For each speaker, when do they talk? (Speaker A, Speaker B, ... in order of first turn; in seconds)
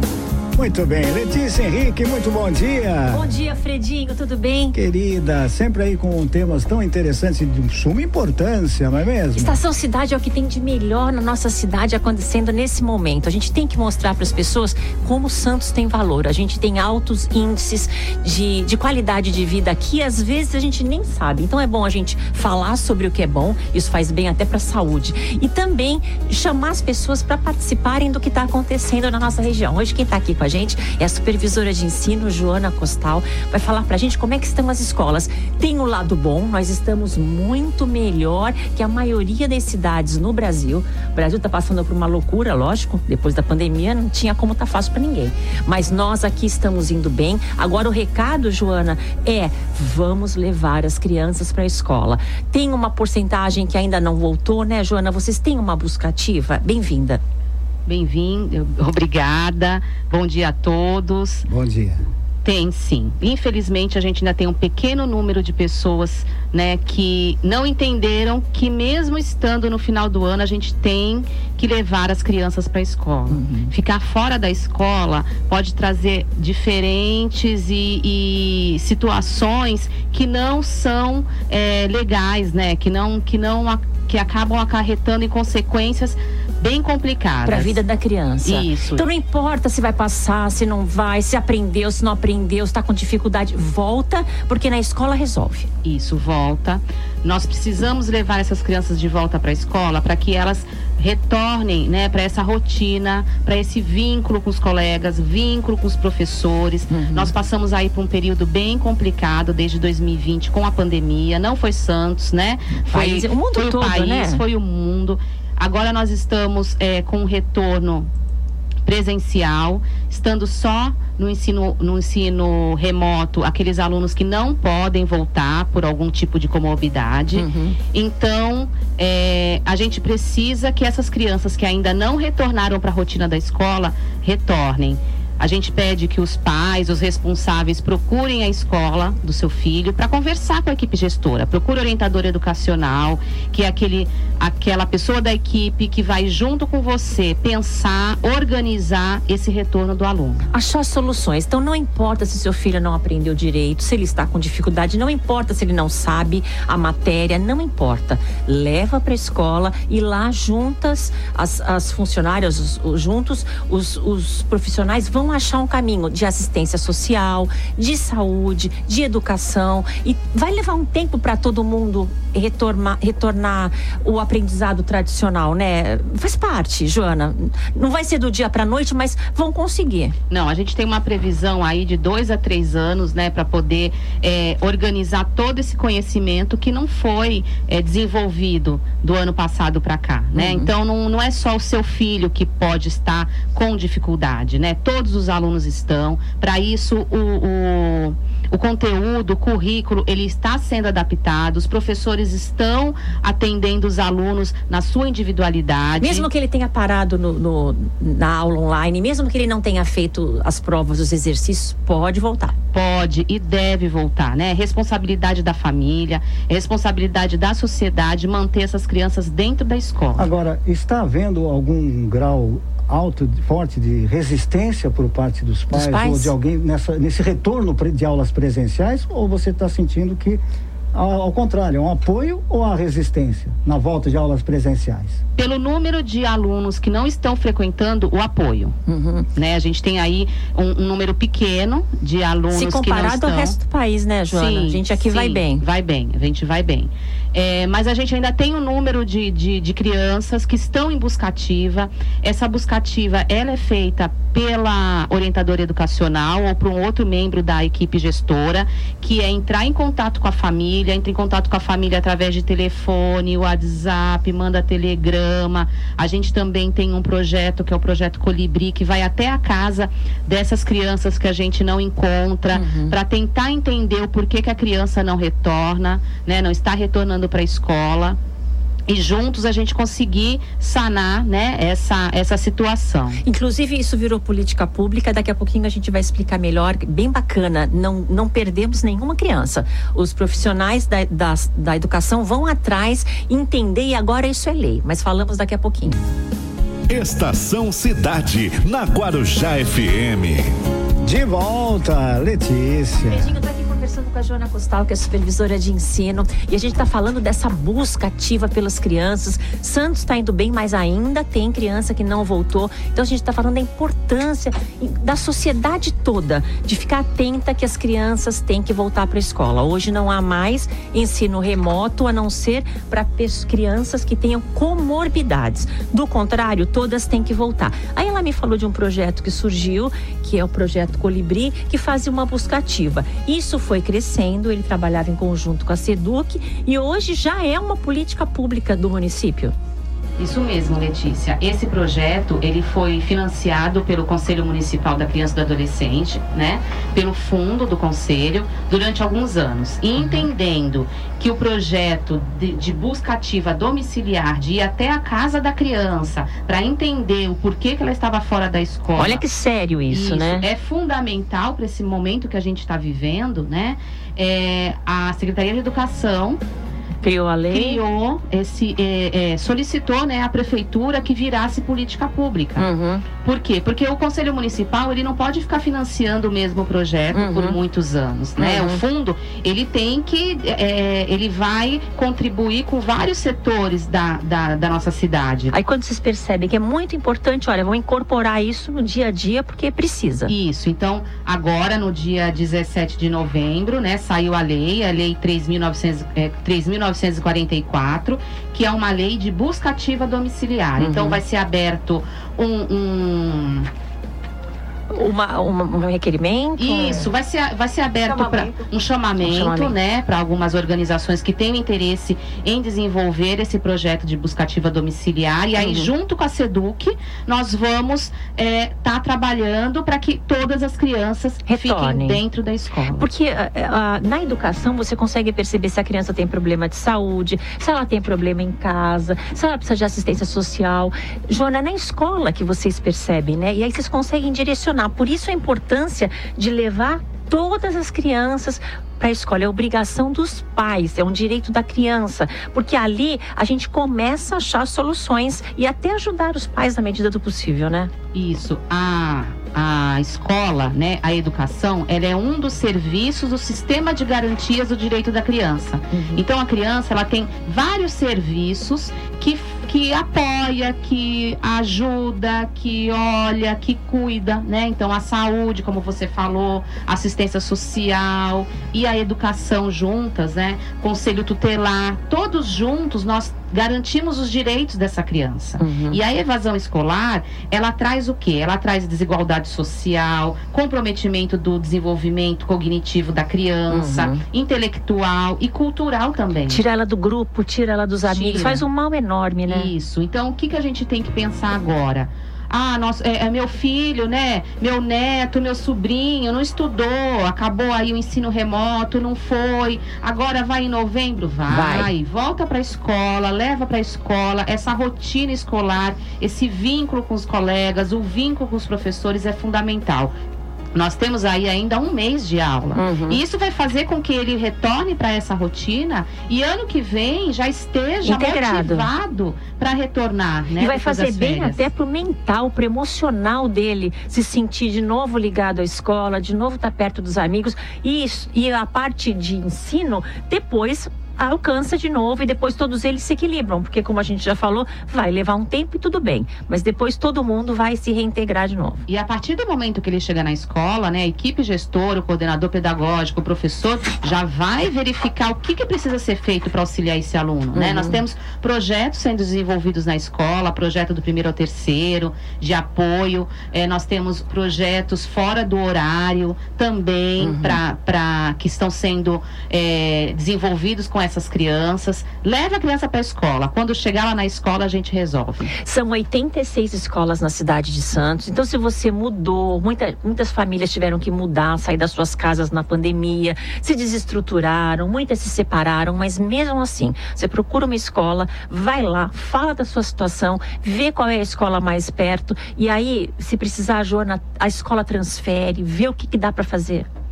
Speaker A: 0.6-3.3, 4.7-9.6, 61.5-62.0, 220.2-230.4, 230.9-235.2, 301.0-303.3
Speaker B: 3.1-4.8, 9.3-57.2, 73.3-73.7, 87.5-95.7, 106.9-107.3, 112.9-114.4, 127.3-127.8, 150.5-180.1, 190.3-190.7, 206.0-212.5, 225.7-226.3, 238.9-239.3, 242.5-245.6, 272.5-273.0, 283.2-296.0, 303.0-339.5, 350.0-350.3, 359.0-360.5, 367.0-367.8, 372.6-373.1, 377.1-377.6, 378.4-378.8, 385.5-390.3, 400.8-401.2, 404.9-407.1, 408.1-408.6, 409.2-409.7, 415.6-415.9, 421.5-422.2, 422.9-447.9, 455.9-456.2, 475.6-476.0, 483.7-484.2, 486.5-489.7, 501.5-501.9, 512.8-513.2, 518.0-518.9, 520.6-538.8, 547.5-548.0, 557.2-557.6, 565.5-586.9
Speaker C: 57.9-61.5, 62.4-87.8, 88.5-89.0, 95.8-118.1, 118.8-150.5, 180.3-206.3, 212.7-220.3, 235.4-238.8, 239.3-243.6, 244.3-278.2, 278.9-283.2, 340.2-359.2, 359.9-366.4, 367.5-372.7, 373.2-385.5, 390.3-403.7, 406.6-423.1, 448.1-486.6, 488.0-488.6, 489.5-510.1, 510.8-521.7, 538.9-565.5
Speaker D: 296.9-300.4